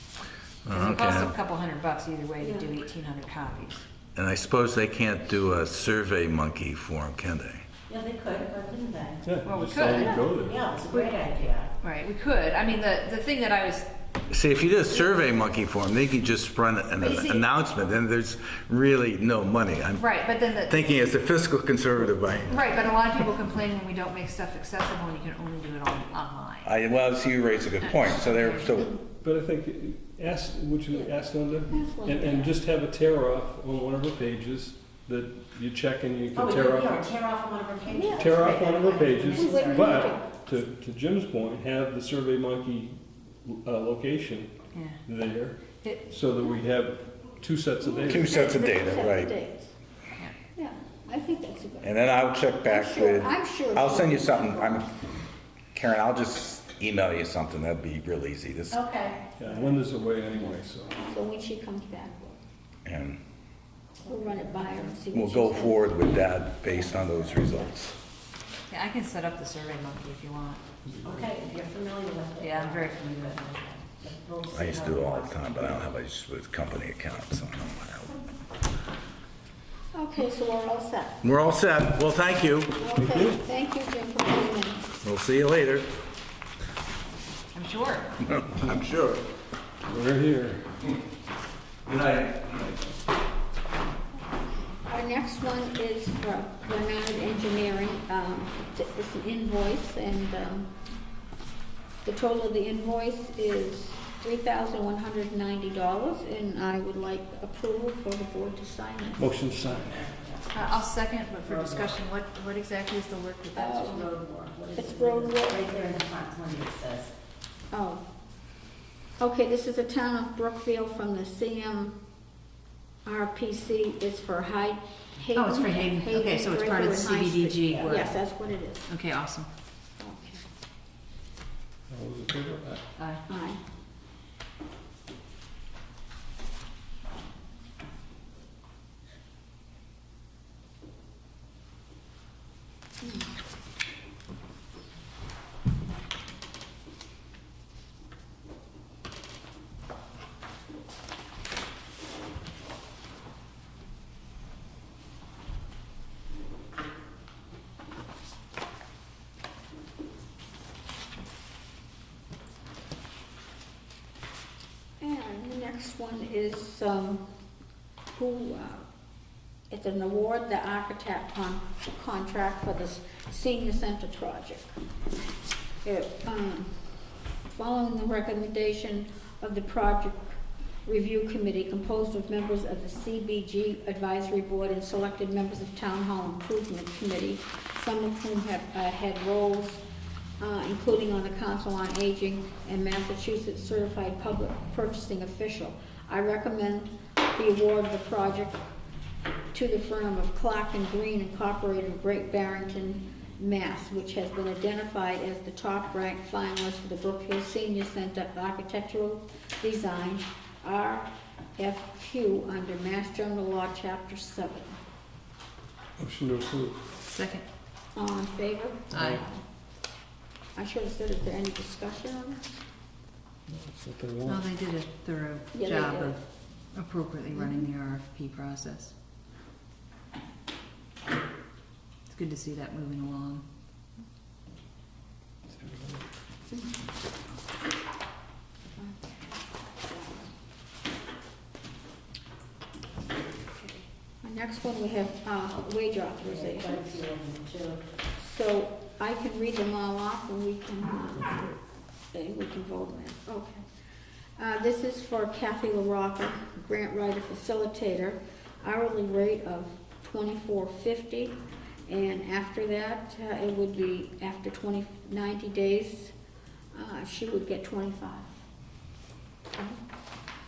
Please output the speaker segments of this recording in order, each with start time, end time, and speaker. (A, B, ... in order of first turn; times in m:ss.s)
0:00.6-0:01.3 A
0:00.7-0:03.8 B
0:02.4-0:02.7 C
0:04.1-0:07.6 A
0:07.9-0:09.3 C
0:09.2-0:10.6 D
0:09.4-0:10.2 B
0:09.9-0:10.2 E
0:10.1-0:11.7 C
0:11.8-0:13.9 B
0:14.3-0:20.0 A
0:17.0-0:17.4 B
0:20.0-0:20.9 B
0:20.7-0:22.5 A
0:22.5-0:26.8 B
0:26.6-0:28.9 A
0:27.8-0:28.7 B
0:29.2-0:37.0 D
0:31.7-0:32.5 E
0:36.3-0:40.2 C
0:37.9-0:38.4 E
0:38.1-0:48.4 D
0:39.3-0:40.3 E
0:44.7-0:45.0 B
0:47.8-0:49.7 E
0:48.1-0:49.3 A
0:50.6-0:51.9 E
0:51.8-0:54.9 A
0:52.6-0:54.9 E
0:55.7-0:58.8 A
0:58.7-0:59.6 C
0:59.4-1:01.0 D
1:00.9-1:02.4 E
1:02.8-1:03.2 A
1:04.0-1:04.9 C
1:04.0-1:05.9 E
1:05.1-1:07.9 A
1:06.6-1:07.7 C
1:08.7-1:10.6 B
1:10.9-1:11.2 D
1:11.0-1:15.8 C
1:12.4-1:13.4 B
1:14.5-1:18.1 A
1:19.9-1:21.2 E
1:21.2-1:22.8 A
1:22.8-1:24.9 E
1:22.9-1:23.4 D
1:25.0-1:25.9 A
1:27.5-1:28.1 B
1:28.3-1:29.2 A
1:29.8-1:30.7 D
1:31.8-1:32.8 A
1:34.2-1:40.7 E
1:42.0-1:49.3 E
1:49.2-1:50.0 D
1:49.9-1:50.8 C
1:50.5-1:54.0 B
1:51.4-1:52.0 C
1:53.5-1:54.0 E
1:53.8-1:57.1 C
1:54.7-1:55.6 E
1:57.7-1:58.0 E
1:59.2-2:01.9 E
2:03.0-2:08.9 E
2:05.3-2:08.1 B
2:07.7-2:08.0 C
2:08.9-2:09.5 B
2:10.0-2:10.4 E
2:11.9-2:12.8 D
2:13.0-2:13.2 B
2:13.3-2:13.6 E
2:45.0-2:47.2 E
2:48.1-2:48.8 E
2:49.7-2:54.7 E
2:55.8-2:56.7 E
2:57.6-3:09.8 E
3:10.4-3:18.6 E
3:19.5-3:34.8 E
3:36.0-3:36.8 D
3:37.1-3:37.4 B
3:37.9-3:39.4 E
3:38.9-3:39.2 D
3:38.9-3:39.2 B
3:40.5-3:42.5 E
3:43.5-3:44.4 D
3:44.2-3:46.2 B
3:45.5-3:46.2 E
3:46.7-3:48.9 B
3:47.3-3:47.7 E
3:52.1-3:53.4 B
3:55.6-3:56.0 D
3:58.8-4:00.3 E
4:04.2-4:06.8 E
4:06.2-4:07.8 C
4:08.2-4:11.6 E
4:12.1-4:13.6 E
4:14.4-4:21.3 E
4:21.9-4:26.1 E
4:26.7-4:28.3 E